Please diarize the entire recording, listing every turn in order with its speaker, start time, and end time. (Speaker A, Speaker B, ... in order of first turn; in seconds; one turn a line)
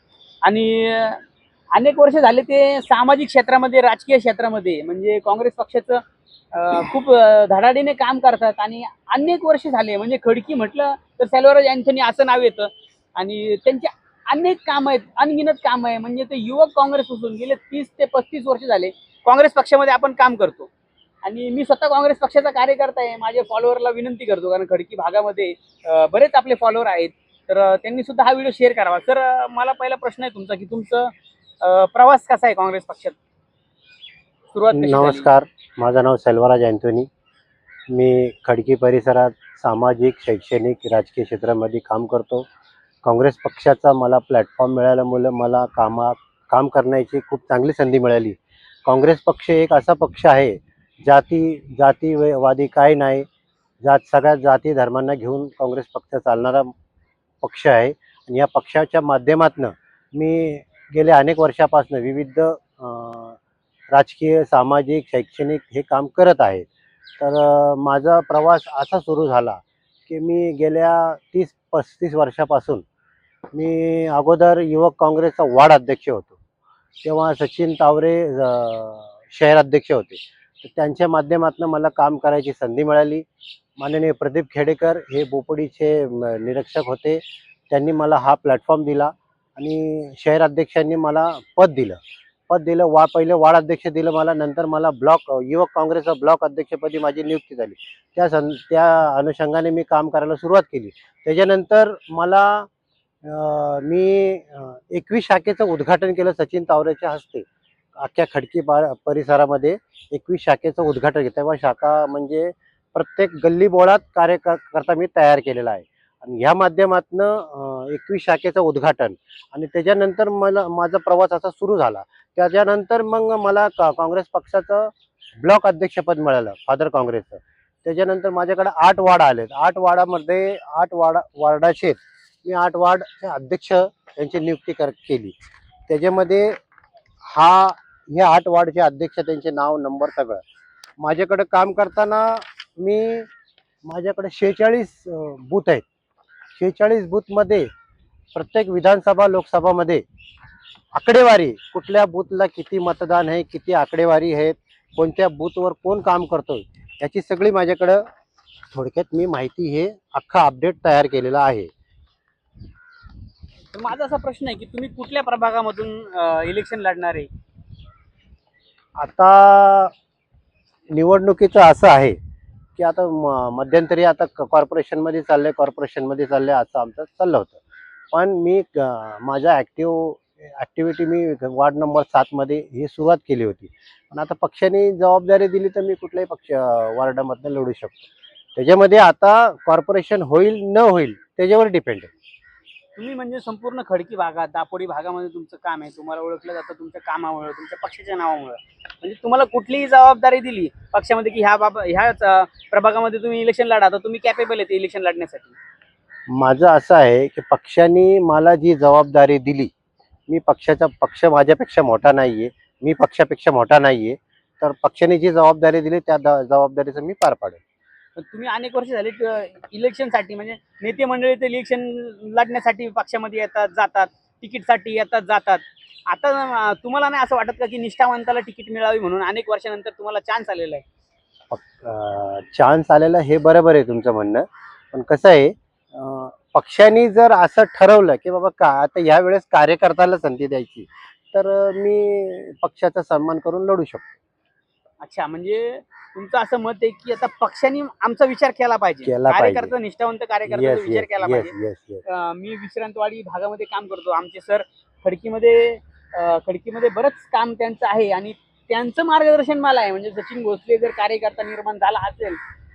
Speaker A: 0.4-1.2
Speaker A: 1.7-6.0
Speaker A: 6.5-20.7
Speaker A: 21.2-33.2
Speaker A: 34.5-35.3
Speaker B: 34.7-37.1
Speaker B: 37.9-42.5
Speaker B: 43.0-53.2
Speaker B: 53.8-56.7
Speaker B: 57.4-63.4
Speaker B: 63.9-66.7
Speaker B: 67.2-72.8
Speaker B: 73.5-76.3
Speaker B: 77.0-83.2
Speaker B: 83.8-92.0
Speaker B: 92.5-102.7
Speaker B: 103.2-135.3
Speaker B: 135.9-136.6
Speaker B: 137.2-140.4
Speaker B: 141.0-143.3
Speaker B: 143.8-145.8
Speaker B: 146.6-147.7
Speaker B: 148.3-150.0
Speaker B: 150.9-158.0
Speaker B: 158.7-161.7
Speaker A: 163.7-167.3
Speaker B: 169.0-169.9
Speaker B: 170.9-172.2
Speaker B: 172.8-177.6
Speaker B: 178.1-188.0
Speaker B: 188.6-192.1
Speaker A: 193.0-205.6
Speaker B: 206.3-209.7
Speaker B: 210.3-217.6
Speaker A: 218.2-230.8
Speaker B: 231.5-244.1
Speaker A: 245.0-251.5
Speaker B: 249.0-249.7
Speaker B: 250.5-252.0
Speaker A: 252.1-262.4